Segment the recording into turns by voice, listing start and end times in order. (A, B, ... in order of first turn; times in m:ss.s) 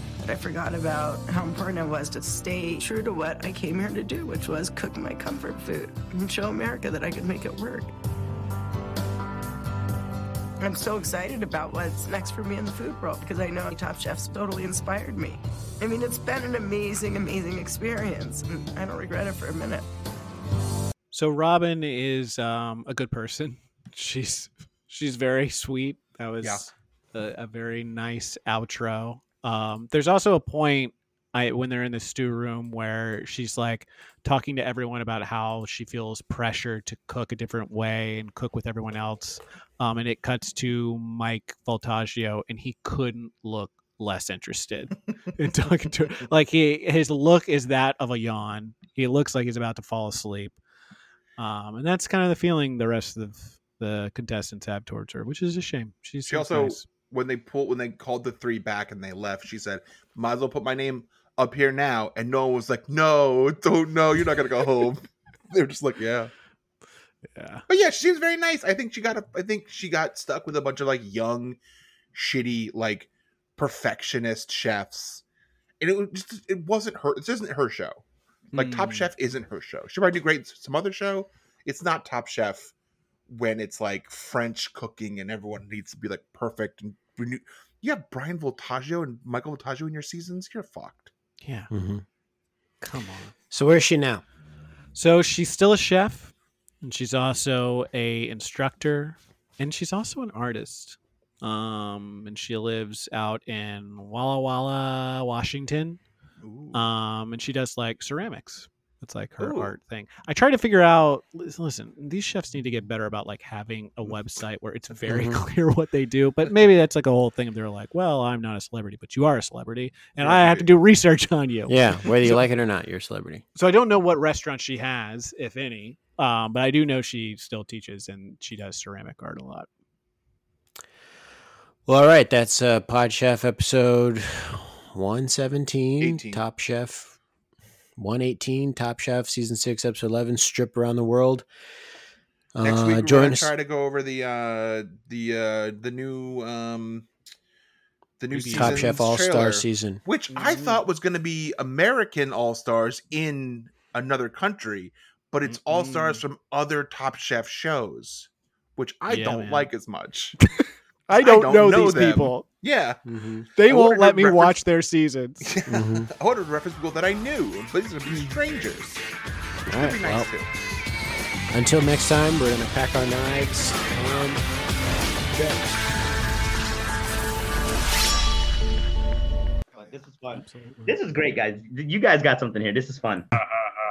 0:00.2-0:07.9 A
0:10.6-0:19.8 A
0:21.1-0:50.5 B
0:51.4-0:56.8 B
0:56.2-1:06.3 C
1:07.3-1:07.6 B
1:07.7-1:11.6 C
1:12.1-1:15.2 C
1:15.8-1:18.0 C
1:18.5-1:19.1 B
1:18.5-1:22.7 C
1:23.3-1:31.1 C
1:31.4-1:31.7 B
1:31.7-1:32.0 D
1:32.8-1:33.3 B
1:33.5-1:34.2 D
1:34.9-1:46.0 B
1:46.4-1:46.8 C
1:46.7-2:02.4 B
1:49.4-1:49.7 C
1:55.1-1:55.4 D
2:00.2-2:00.7 C
2:01.7-2:03.4 D
2:03.6-2:09.7 B
2:11.8-2:17.2 D
2:16.0-2:16.4 C
2:18.0-2:21.4 D
2:22.5-2:23.5 D
2:22.6-2:27.1 C
2:28.2-2:40.4 C
2:28.3-2:29.0 B
2:28.5-2:30.0 D
2:30.3-2:30.8 B
2:35.4-2:36.2 B
2:39.1-2:39.7 B
2:40.4-2:42.4 B
2:41.1-2:43.0 C
2:43.0-2:43.5 D
2:43.6-2:45.5 B
2:43.6-2:44.6 C
2:45.4-2:49.0 C
2:45.7-2:46.1 D
2:49.7-2:50.3 D
2:49.7-2:50.5 C
2:51.5-2:54.4 D
2:59.7-3:03.3 E
3:00.3-3:01.0 B